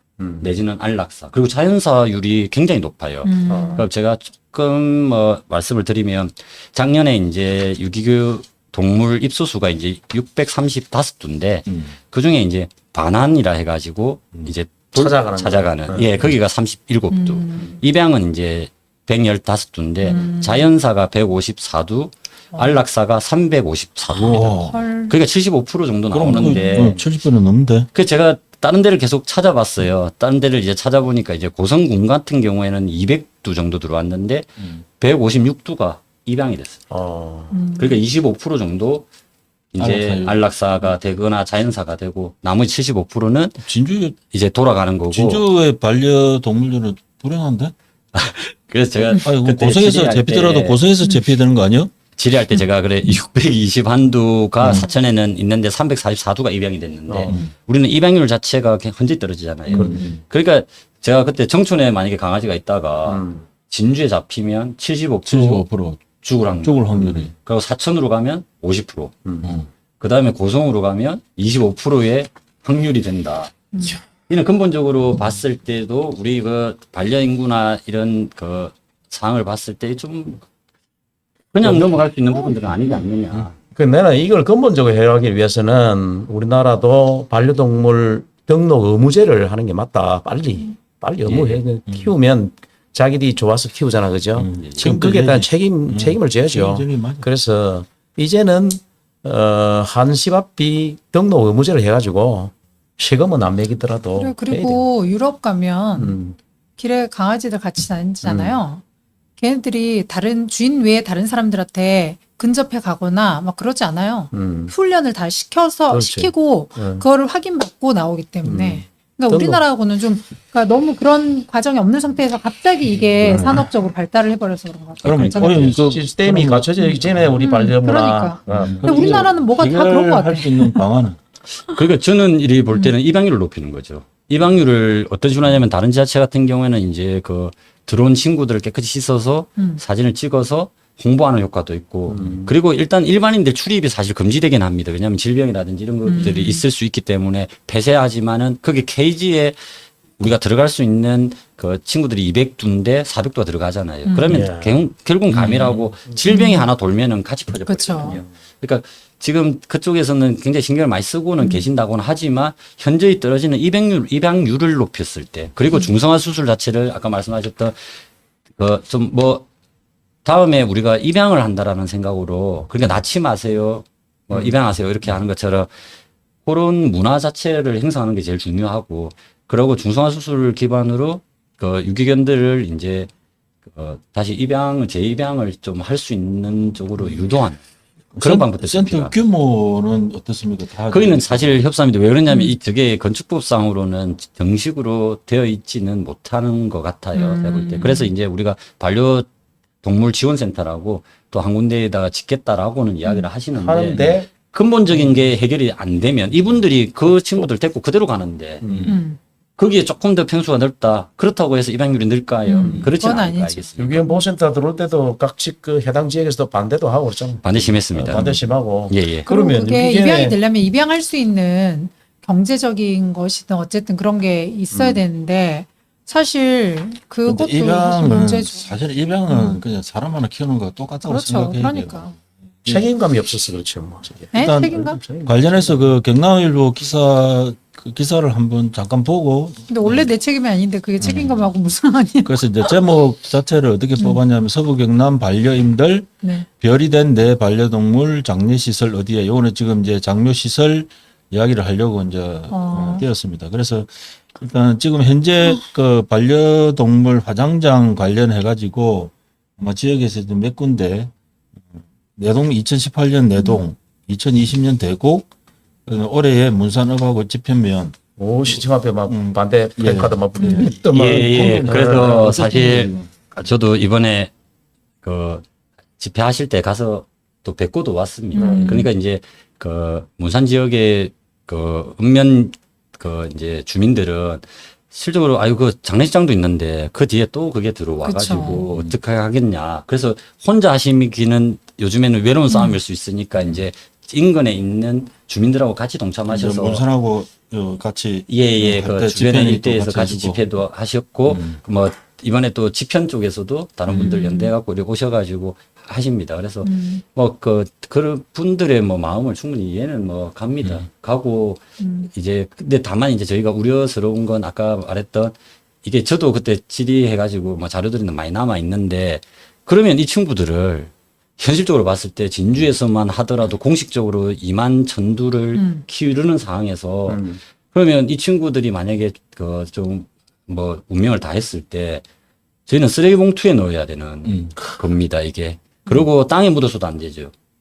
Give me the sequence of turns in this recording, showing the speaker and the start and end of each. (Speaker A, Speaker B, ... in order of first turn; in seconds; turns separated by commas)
Speaker A: 0.2-0.5, Speaker B: 0.4-26.9, Speaker C: 3.2-3.9, Speaker A: 3.5-3.9, Speaker D: 11.7-11.9, Speaker A: 14.9-16.2, Speaker C: 17.1-17.8, Speaker C: 20.0-20.7, Speaker C: 22.5-22.8, Speaker D: 24.1-24.7, Speaker C: 24.3-25.2, Speaker D: 26.1-27.9, Speaker C: 26.4-26.9, Speaker B: 27.9-36.8, Speaker A: 36.9-37.6, Speaker C: 37.5-38.0, Speaker B: 37.8-39.1, Speaker B: 39.7-43.6, Speaker D: 39.8-40.4, Speaker D: 43.6-44.2, Speaker B: 44.3-45.4, Speaker D: 45.1-47.7, Speaker B: 48.1-50.8, Speaker D: 49.1-51.9, Speaker B: 52.2-65.7, Speaker D: 54.6-54.9, Speaker A: 57.1-57.4, Speaker A: 59.7-60.0, Speaker D: 59.7-60.2, Speaker A: 63.0-63.5, Speaker D: 65.2-66.0, Speaker B: 66.2-69.2, Speaker D: 66.6-67.3, Speaker A: 66.9-67.3, Speaker A: 69.2-69.6, Speaker B: 70.0-80.4, Speaker C: 73.7-74.0, Speaker B: 81.5-83.5, Speaker A: 81.6-82.0, Speaker A: 83.7-104.8, Speaker B: 91.2-91.6, Speaker D: 91.9-92.1, Speaker D: 94.3-97.2, Speaker B: 94.6-94.9, Speaker C: 104.2-106.1, Speaker A: 106.0-106.4, Speaker C: 106.8-108.8, Speaker A: 108.2-108.6, Speaker C: 109.4-125.7, Speaker A: 114.3-114.7, Speaker A: 115.9-117.0, Speaker A: 118.4-119.6, Speaker D: 123.2-123.7, Speaker D: 125.0-127.2, Speaker B: 125.0-125.8, Speaker A: 125.6-129.3, Speaker C: 127.4-130.8, Speaker D: 128.7-131.2, Speaker B: 131.6-149.6, Speaker A: 142.1-142.5, Speaker C: 146.0-146.6, Speaker B: 150.2-167.8, Speaker C: 154.1-154.4, Speaker A: 154.3-154.8, Speaker D: 155.3-155.8, Speaker C: 156.3-156.7, Speaker C: 157.7-158.2, Speaker B: 168.6-169.4, Speaker B: 170.2-175.7, Speaker B: 176.4-183.1, Speaker B: 183.7-187.6, Speaker D: 188.1-191.6, Speaker B: 188.2-189.1, Speaker B: 190.9-199.3, Speaker C: 192.3-192.5, Speaker C: 197.1-198.1, Speaker B: 199.8-208.7, Speaker A: 203.6-204.3, Speaker A: 205.0-205.3, Speaker A: 207.2-207.4, Speaker A: 208.6-209.0, Speaker C: 208.9-209.2, Speaker B: 209.6-214.0, Speaker C: 212.4-214.2, Speaker A: 212.6-212.9, Speaker A: 213.8-220.4, Speaker B: 217.4-218.3, Speaker B: 218.9-219.3, Speaker C: 219.2-228.8, Speaker A: 224.7-225.0, Speaker D: 227.2-232.8, Speaker C: 229.3-229.6, Speaker C: 231.1-232.1, Speaker A: 232.7-235.9, Speaker C: 234.3-235.0, Speaker D: 234.3-234.7, Speaker D: 235.2-240.1, Speaker C: 239.7-242.7, Speaker D: 241.0-241.4, Speaker D: 242.2-246.1, Speaker C: 246.2-246.5, Speaker D: 246.6-265.3, Speaker C: 252.5-253.0, Speaker D: 265.9-267.9, Speaker A: 268.1-272.2, Speaker D: 269.1-273.1, Speaker C: 270.4-270.7, Speaker B: 270.8-274.3, Speaker B: 275.0-275.4, Speaker B: 276.0-296.8, Speaker C: 278.3-278.9, Speaker D: 278.5-278.9, Speaker C: 288.0-288.6, Speaker D: 288.6-288.9, Speaker C: 292.5-292.8, Speaker D: 296.3-300.4, Speaker B: 298.3-332.0, Speaker D: 301.3-301.6, Speaker C: 303.9-304.5, Speaker C: 306.6-307.0, Speaker C: 311.8-312.1, Speaker C: 325.5-325.8, Speaker A: 327.1-327.4, Speaker B: 332.7-337.3, Speaker D: 334.2-334.8